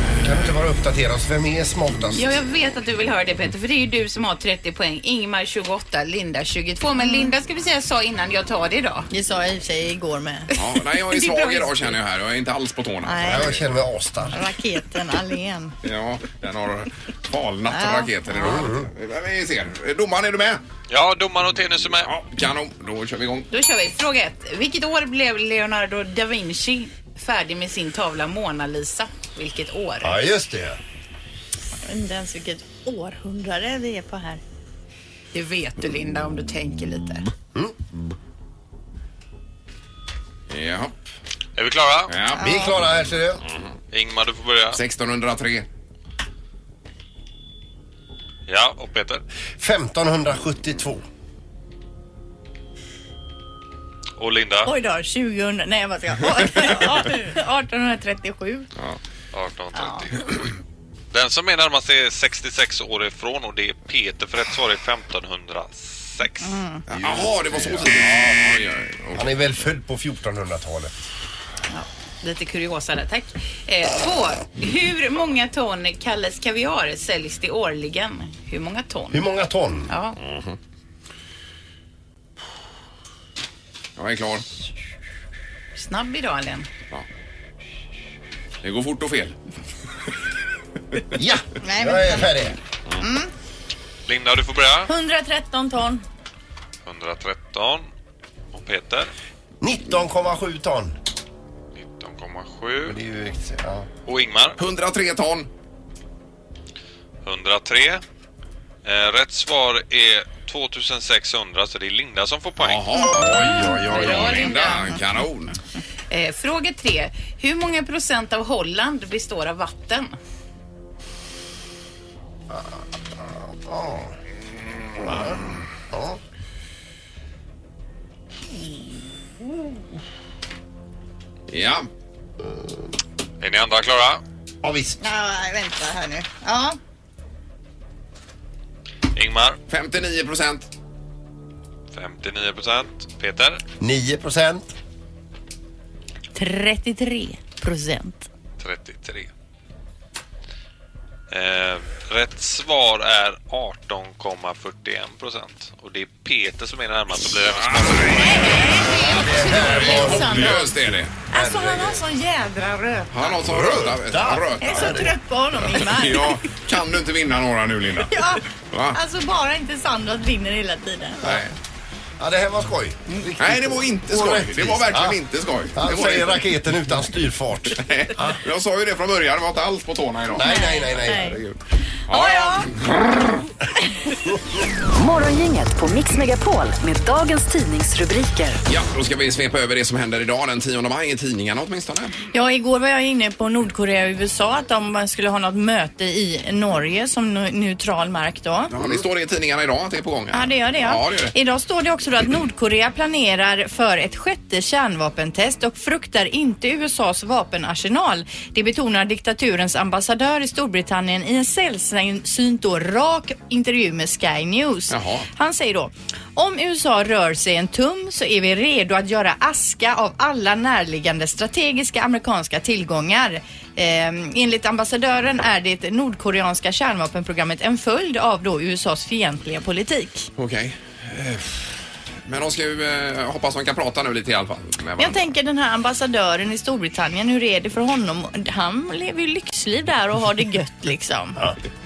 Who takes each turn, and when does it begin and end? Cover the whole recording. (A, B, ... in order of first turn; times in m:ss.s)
0:00.2-0:02.4 A
0:02.1-0:09.1 B
0:07.0-0:07.3 C
0:09.1-0:10.5 C
0:10.6-0:13.6 D
0:11.1-0:11.8 C
0:13.0-0:13.5 C
0:13.2-0:14.4 A
0:14.3-0:15.7 C
0:15.8-0:20.6 D
0:17.7-0:18.6 C
0:18.4-0:18.9 A
0:20.9-0:22.1 E
0:22.0-0:23.5 D
0:23.5-0:30.2 B
0:30.0-0:30.8 A
0:31.8-0:34.4 C
0:35.3-0:37.3 B
0:40.5-0:40.9 D
0:41.6-0:42.2 E
0:42.1-0:42.4 D
0:42.4-0:42.7 C
0:42.4-0:43.4 A
0:43.9-0:44.8 E
0:44.7-0:45.6 D
0:48.5-0:49.2 E
0:49.6-0:51.0 A
0:54.2-0:54.7 E
0:54.6-0:58.7 C
0:59.3-1:00.4 E
0:59.7-1:00.1 C
1:01.1-1:06.6 E
1:06.4-1:06.8 C
1:06.9-1:08.3 A
1:06.9-1:09.3 D
1:09.1-1:10.9 A
1:11.7-1:15.2 C
1:12.3-1:13.0 B
1:13.7-1:14.3 B
1:15.0-1:19.0 B
1:18.0-1:19.1 C
1:19.1-1:19.9 A
1:20.2-1:20.6 D
1:24.0-1:24.4 D
1:25.8-1:26.7 B
1:28.6-1:29.4 D
1:31.1-1:32.6 A
1:31.6-1:32.4 C
1:33.0-1:33.3 C
1:34.1-1:34.9 E
1:34.9-1:36.0 C
1:36.8-1:37.9 E
1:38.5-1:39.1 E
1:39.6-1:40.9 A
1:41.7-1:43.0 E
1:42.8-1:43.9 A
1:44.0-1:44.6 E
1:44.6-1:45.5 D
1:47.2-1:48.0 E
1:48.8-1:52.9 E
1:52.6-1:55.6 D
1:53.2-1:54.3 A
1:53.2-1:54.9 C
1:54.0-1:54.5 B
1:56.1-2:00.1 B
2:02.5-2:04.1 A
2:05.0-2:06.2 A
2:11.5-2:11.9 D
2:13.4-2:14.2 E
2:14.6-2:15.0 A
2:15.0-2:16.8 C
2:19.1-2:19.6 E
2:19.7-2:20.7 D
2:21.9-2:23.6 E
2:23.8-2:24.6 A
2:26.3-2:28.3 C
2:28.6-2:29.3 E
2:31.3-2:38.4 E
2:37.6-2:38.7 D
2:38.1-2:40.7 C
2:38.9-2:40.7 A
2:39.4-2:41.1 D
2:41.3-2:43.1 C
2:41.3-2:42.0 A
2:43.1-2:45.1 D
2:43.3-2:45.1 A
2:44.6-2:46.4 C
2:45.7-2:49.0 D
2:48.1-2:48.4 C
2:48.9-2:51.3 C
2:51.2-2:51.5 D
2:52.2-2:55.2 A
2:53.4-2:56.4 D
2:55.7-2:58.4 A
2:57.7-3:01.6 D
3:00.3-3:01.4 A
3:00.4-3:01.4 C
3:02.1-3:03.4 D
3:02.1-3:02.7 C
3:04.9-3:08.6 F
3:08.6-3:12.2 D
3:12.3-3:18.7 C
3:18.7-3:21.3 D
3:20.3-3:50.3 C
3:34.9-3:35.3 D
3:50.4-3:51.7 D
3:52.2-3:55.2 D
3:55.0-4:01.5 C